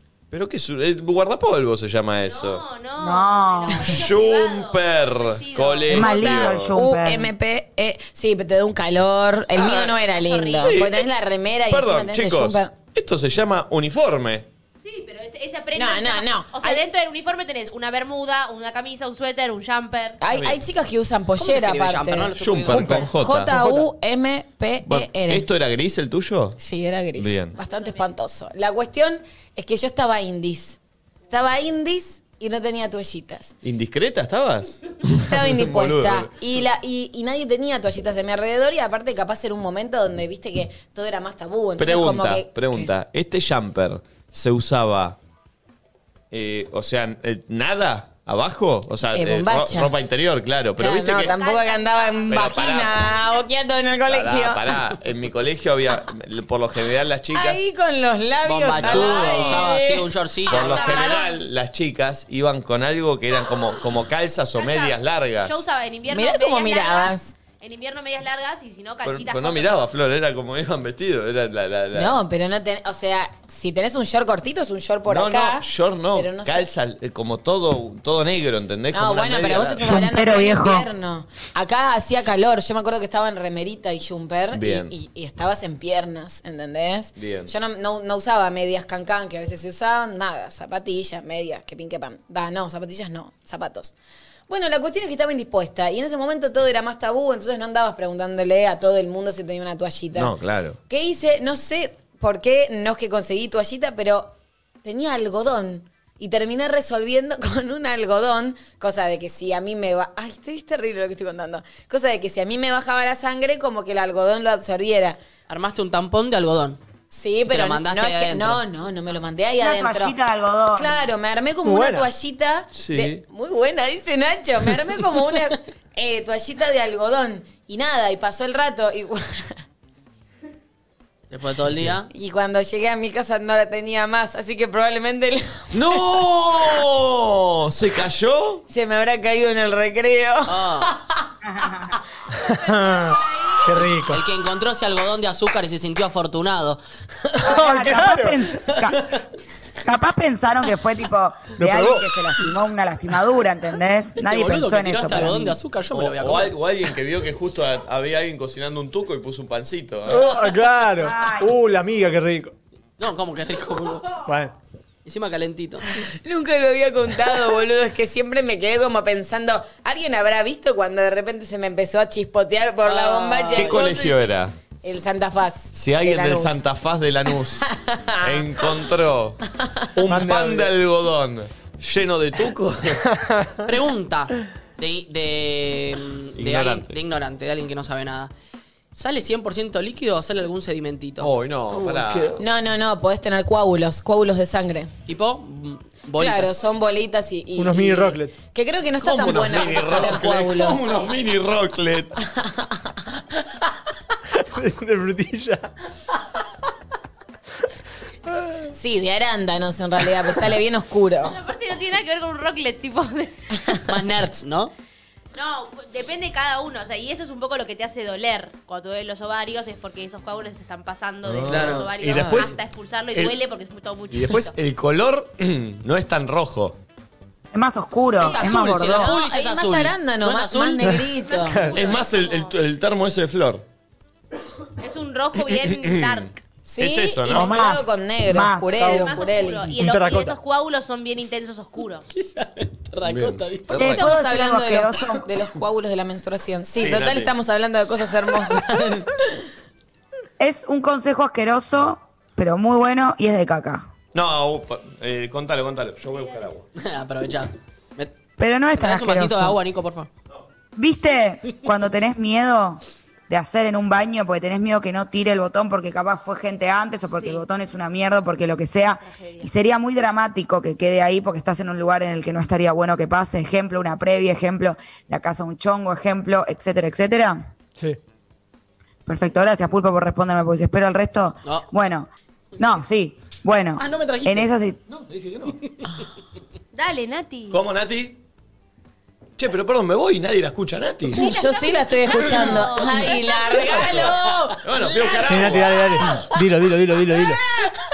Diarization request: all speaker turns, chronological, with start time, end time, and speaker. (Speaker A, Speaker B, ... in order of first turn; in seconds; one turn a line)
Speaker A: 0.3-2.6
Speaker B: 2.2-6.3
Speaker C: 3.0-4.0
Speaker A: 3.9-6.8
Speaker C: 5.9-7.3
Speaker D: 6.0-12.7
Speaker A: 9.6-10.0
Speaker B: 10.1-10.8
Speaker A: 10.5-11.1
Speaker A: 11.7-14.5
Speaker B: 14.8-20.2
Speaker D: 15.8-16.8
Speaker D: 20.2-22.3
Speaker A: 20.3-20.6
Speaker E: 21.4-22.9
Speaker A: 22.4-23.6
Speaker F: 22.7-23.9
Speaker D: 22.9-25.5
Speaker A: 24.8-26.6
Speaker D: 26.6-30.8
Speaker A: 27.2-27.6
Speaker B: 27.6-28.1
Speaker D: 31.3-33.5
Speaker A: 33.6-36.4
Speaker D: 35.2-42.9
Speaker A: 41.8-45.2
Speaker A: 46.3-51.4
Speaker D: 49.1-49.9
Speaker D: 50.8-54.6
Speaker B: 51.2-53.5
Speaker A: 52.3-53.2
Speaker A: 54.1-57.6
Speaker D: 57.3-60.1
Speaker E: 58.4-61.1
Speaker A: 58.8-59.7
Speaker B: 60.5-61.4
Speaker A: 60.5-65.6
Speaker B: 64.5-69.9
Speaker D: 66.1-67.3
Speaker A: 69.0-72.2
Speaker D: 71.9-76.7
Speaker A: 75.1-80.1
Speaker D: 78.9-93.9
Speaker C: 79.8-80.9
Speaker A: 84.5-84.9
Speaker A: 87.2-87.5
Speaker D: 94.5-100.3
Speaker A: 100.2-100.8
Speaker D: 100.9-115.2
Speaker E: 115.5-116.8
Speaker D: 117.1-120.2
Speaker E: 117.5-118.6
Speaker C: 119.6-121.0
Speaker D: 120.7-129.6
Speaker F: 121.6-122.1
Speaker A: 122.7-123.2
Speaker E: 131.3-132.1
Speaker D: 132.1-135.7
Speaker A: 135.7-138.6
Speaker D: 138.7-141.0
Speaker E: 140.5-140.9
Speaker C: 141.5-141.9
Speaker B: 142.4-143.8
Speaker F: 142.5-144.2
Speaker E: 144.1-147.4
Speaker C: 147.4-149.1
Speaker F: 147.4-148.4
Speaker C: 149.8-155.6
Speaker F: 151.6-152.1
Speaker E: 154.2-156.5
Speaker A: 155.9-160.4
Speaker F: 160.1-162.6
Speaker C: 161.0-161.6
Speaker E: 163.0-164.2
Speaker F: 164.2-164.6
Speaker E: 165.1-165.9
Speaker D: 166.2-174.2
Speaker E: 172.8-173.9
Speaker A: 173.5-174.5
Speaker D: 174.8-176.6
Speaker A: 175.7-177.7
Speaker D: 177.6-178.5
Speaker A: 178.2-179.4
Speaker A: 179.9-183.0
Speaker F: 180.1-180.7
Speaker F: 183.1-183.7
Speaker E: 183.7-188.3
Speaker A: 186.4-187.0
Speaker E: 188.9-191.3
Speaker A: 191.2-192.4
Speaker F: 191.7-192.4
Speaker D: 192.4-194.9
Speaker E: 195.1-196.6
Speaker D: 196.2-201.0
Speaker F: 197.6-198.3
Speaker A: 199.0-202.1
Speaker F: 204.5-205.7
Speaker D: 208.7-211.4
Speaker B: 211.2-213.6
Speaker E: 213.9-214.7
Speaker B: 215.3-224.5
Speaker A: 221.2-222.6
Speaker E: 221.5-221.9
Speaker A: 224.1-226.8
Speaker C: 227.5-229.1
Speaker E: 228.2-231.1
Speaker D: 228.2-231.6
Speaker F: 230.8-231.9
Speaker B: 231.3-232.6
Speaker A: 231.7-233.7
Speaker B: 234.8-236.4
Speaker A: 235.4-237.6
Speaker D: 236.7-239.7
Speaker C: 237.3-239.1
Speaker B: 238.7-242.1
Speaker F: 239.8-240.4
Speaker E: 242.1-244.0
Speaker A: 243.0-244.0
Speaker C: 243.7-245.3
Speaker D: 243.8-249.3
Speaker A: 246.8-247.3
Speaker C: 250.4-253.9
Speaker A: 254.1-256.6
Speaker B: 256.1-256.5
Speaker E: 256.8-258.1
Speaker C: 258.4-259.6
Speaker E: 258.7-260.1
Speaker C: 260.8-277.5
Speaker B: 267.1-267.4
Speaker B: 269.0-269.5
Speaker C: 279.1-284.8
Speaker E: 283.8-284.5
Speaker A: 284.9-285.6
Speaker E: 285.6-286.0
Speaker B: 286.7-287.6
Speaker A: 287.5-288.2
Speaker A: 289.4-291.3
Speaker D: 291.1-294.5
Speaker B: 291.1-293.8
Speaker E: 293.4-295.1
Speaker A: 293.7-296.0
Speaker F: 295.2-297.4